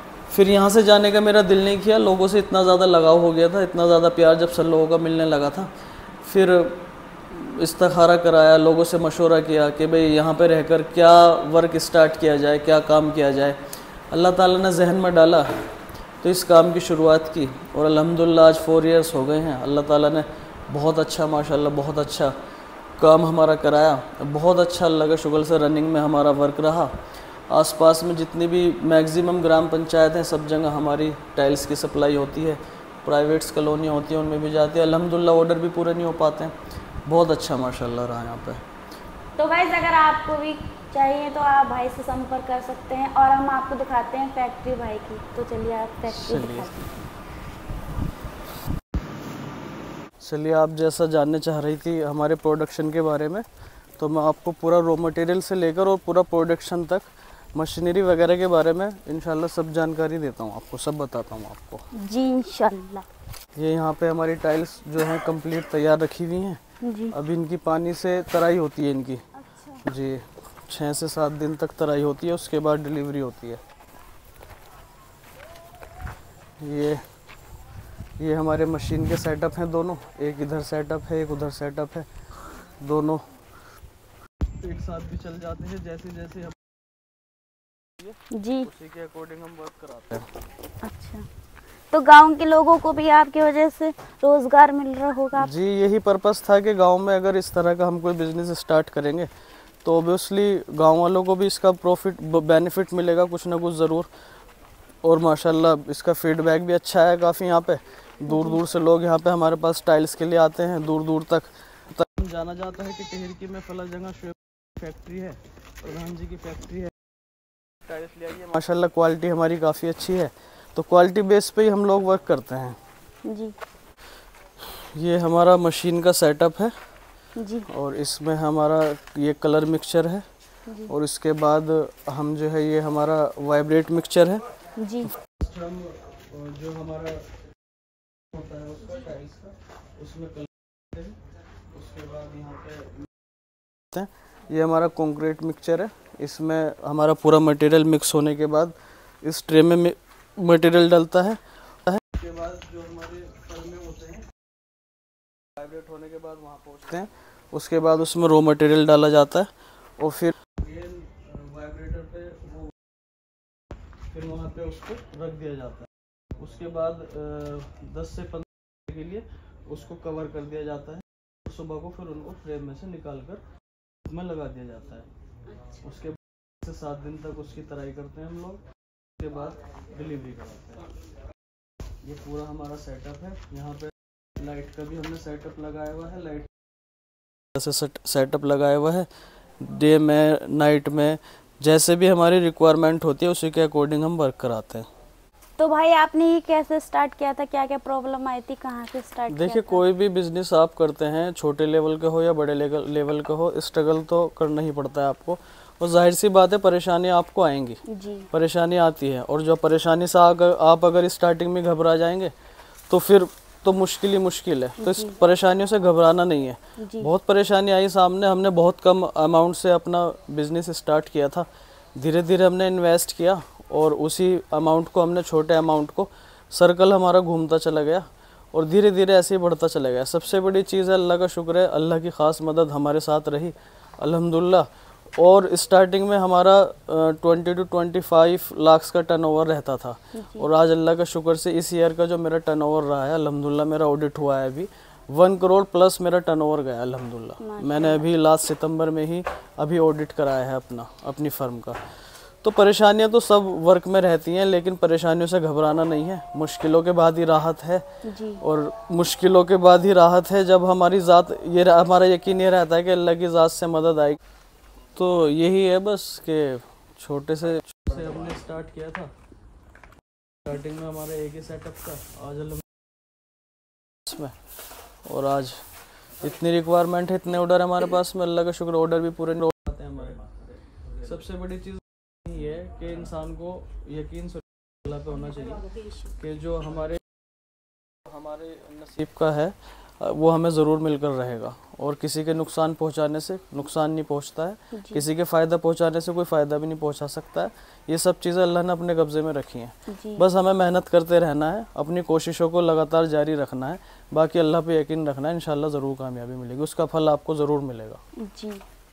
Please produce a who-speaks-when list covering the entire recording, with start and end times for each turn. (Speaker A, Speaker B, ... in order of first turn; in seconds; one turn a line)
Speaker A: 0.3-5.7
Speaker A: 6.2-15.7
Speaker A: 16.2-22.4
Speaker A: 23.0-27.0
Speaker A: 27.5-36.5
Speaker A: 37.1-38.6
Speaker B: 39.4-47.0
Speaker A: 46.1-46.7
Speaker A: 50.2-53.5
Speaker A: 54.0-61.9
Speaker B: 62.0-63.0
Speaker A: 63.5-66.6
Speaker B: 66.8-67.2
Speaker A: 67.1-69.2
Speaker A: 69.8-73.6
Speaker A: 76.6-77.0
Speaker A: 78.2-82.1
Speaker A: 82.8-83.2
Speaker A: 84.6-86.6
Speaker A: 88.0-90.3
Speaker B: 88.3-88.7
Speaker B: 90.8-91.3
Speaker B: 91.9-95.5
Speaker A: 95.4-99.3
Speaker A: 99.8-104.1
Speaker A: 105.0-117.0
Speaker B: 108.3-108.6
Speaker A: 117.8-122.8
Speaker B: 123.2-123.5
Speaker A: 124.6-126.8
Speaker B: 127.4-127.7
Speaker A: 127.7-130.3
Speaker B: 130.7-130.9
Speaker A: 130.9-134.4
Speaker B: 134.8-135.1
Speaker A: 135.0-137.4
Speaker A: 138.3-141.2
Speaker A: 141.7-143.1
Speaker A: 143.9-154.3
Speaker A: 155.6-162.8
Speaker A: 164.1-173.4
Speaker A: 174.1-175.1
Speaker A: 175.8-178.6
Speaker A: 179.2-180.9
Speaker A: 182.0-186.5
Speaker A: 187.5-194.9
Speaker B: 195.6-199.8
Speaker A: 199.3-212.3
Speaker B: 207.9-208.3
Speaker A: 212.9-251.8
Speaker B: 214.8-215.2
Speaker B: 216.8-217.1
Speaker B: 240.1-240.5
Speaker B: 247.4-248.1
Speaker A: 252.4-257.8
Speaker B: 258.1-258.4
Speaker A: 258.4-264.2
Speaker A: 264.9-269.1
Speaker A: 270.4-272.7
Speaker A: 274.1-274.4
Speaker A: 275.1-275.7
Speaker A: 276.2-287.0
Speaker A: 288.1-308.0
Speaker B: 294.7-295.1
Speaker B: 299.9-300.3
Speaker B: 308.2-308.6